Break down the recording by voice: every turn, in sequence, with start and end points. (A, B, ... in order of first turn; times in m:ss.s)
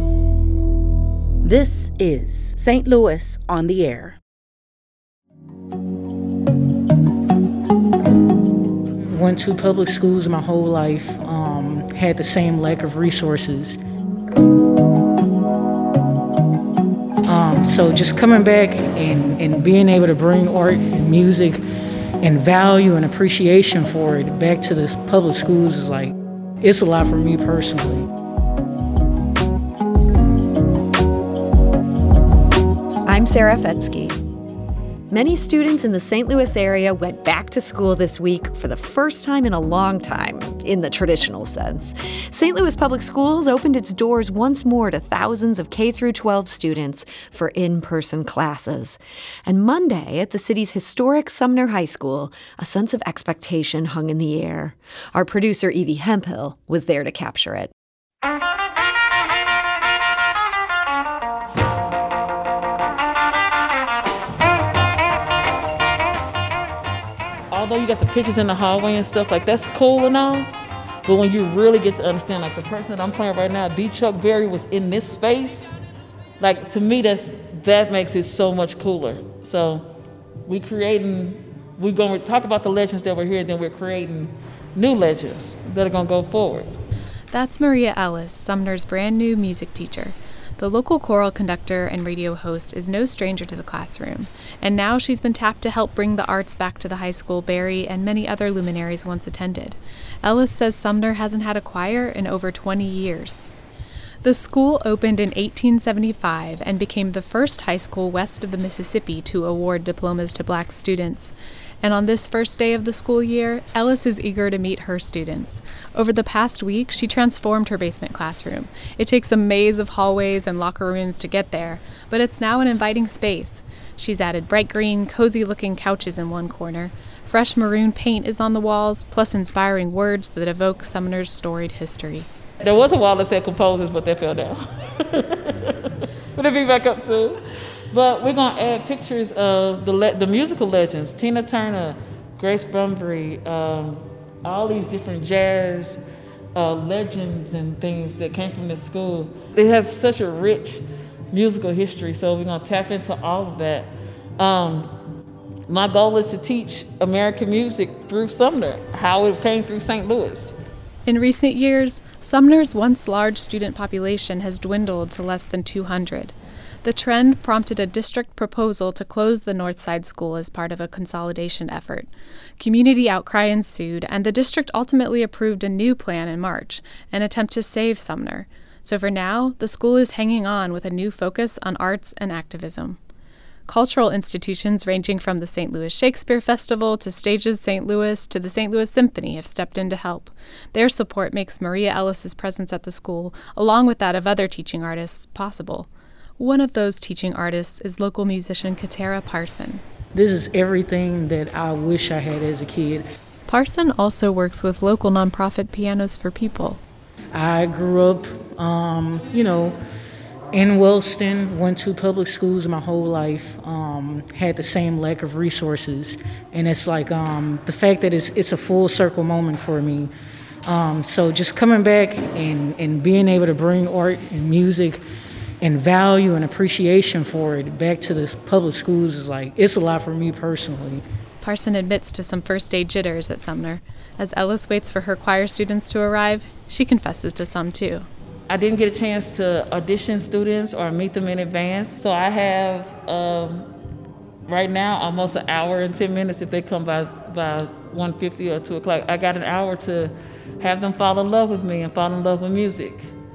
0:01.4-0:04.2 A
0:09.1-0:13.8 B
0:17.3-0:21.6 B
0:22.2-0:28.0 B
0:33.1-0:34.2 C
0:35.1-0:57.7 C
1:07.5-1:10.5 D
1:11.0-1:15.7 D
1:16.4-1:19.8 D
1:20.4-1:26.8 D
1:27.3-1:43.4 E
1:44.2-2:12.3 E
2:12.6-2:17.4 D
2:17.9-2:26.0 D
2:26.5-2:34.9 D
2:35.7-2:40.5 D
2:41.0-3:03.0 E
3:03.7-3:19.8 E
3:20.2-3:23.0 B
3:23.5-3:26.8 E
3:27.3-3:29.7 B
3:30.5-3:40.1 B
3:40.6-3:45.0 B
3:45.6-3:51.0 B
3:51.4-3:58.1 E
3:58.5-4:03.7 D
4:04.5-4:13.1 D